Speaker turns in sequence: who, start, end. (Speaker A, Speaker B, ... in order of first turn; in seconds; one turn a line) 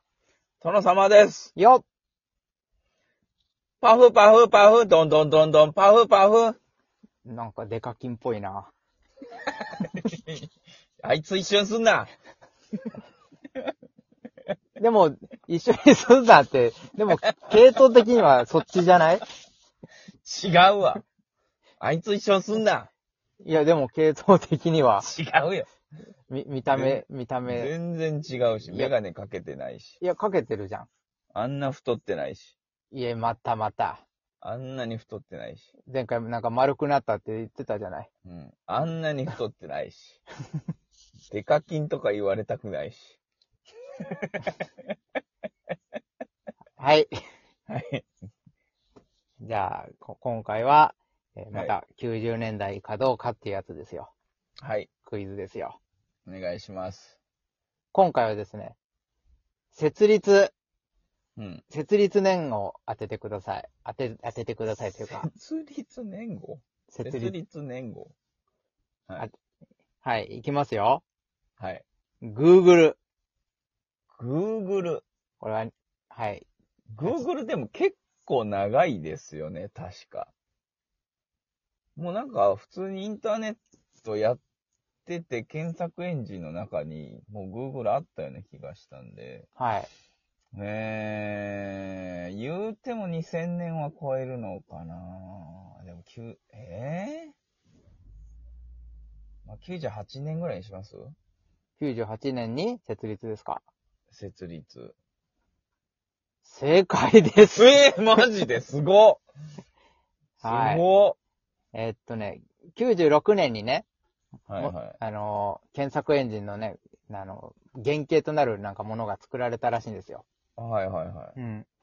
Speaker A: 0.6-1.5
Speaker B: 1.6-1.8
Speaker A: 3.8-6.6
Speaker B: 7.2-8.7
Speaker A: 9.8-10.4
Speaker A: 11.0-12.1
Speaker B: 14.8-19.2
Speaker A: 20.2-21.0
Speaker A: 21.8-22.9
Speaker B: 23.4-25.1
Speaker A: 25.0-25.7
Speaker B: 26.3-27.7
Speaker A: 26.7-30.0
Speaker B: 28.6-28.9
Speaker B: 30.0-30.9
Speaker A: 31.3-32.6
Speaker B: 32.9-34.0
Speaker A: 34.4-35.7
Speaker B: 35.8-38.1
Speaker A: 38.2-40.2
Speaker A: 41.3-43.2
Speaker A: 44.0-44.6
Speaker B: 46.8-47.1
Speaker A: 47.7-48.0
Speaker B: 49.4-54.1
Speaker A: 54.6-54.9
Speaker B: 55.0-55.8
Speaker A: 56.2-57.2
Speaker B: 57.9-58.8
Speaker B: 59.7-60.5
Speaker A: 61.4-61.6
Speaker B: 61.7-65.3
Speaker A: 65.1-68.1
Speaker B: 66.9-67.3
Speaker B: 70.0-71.0
Speaker A: 71.6-71.8
Speaker B: 72.2-73.0
Speaker A: 74.1-75.0
Speaker B: 75.4-76.5
Speaker A: 76.9-80.3
Speaker A: 82.0-84.4
Speaker A: 85.0-89.5
Speaker B: 89.6-89.9
Speaker A: 90.5-97.3
Speaker A: 99.4-101.2
Speaker B: 101.8-103.6
Speaker A: 104.1-105.0
Speaker B: 106.4-107.8
Speaker A: 107.5-109.2
Speaker A: 110.4-111.2
Speaker B: 110.4-110.8
Speaker B: 111.7-113.8
Speaker A: 114.5-115.0
Speaker B: 114.6-120.2
Speaker A: 120.6-121.3
Speaker B: 121.4-121.7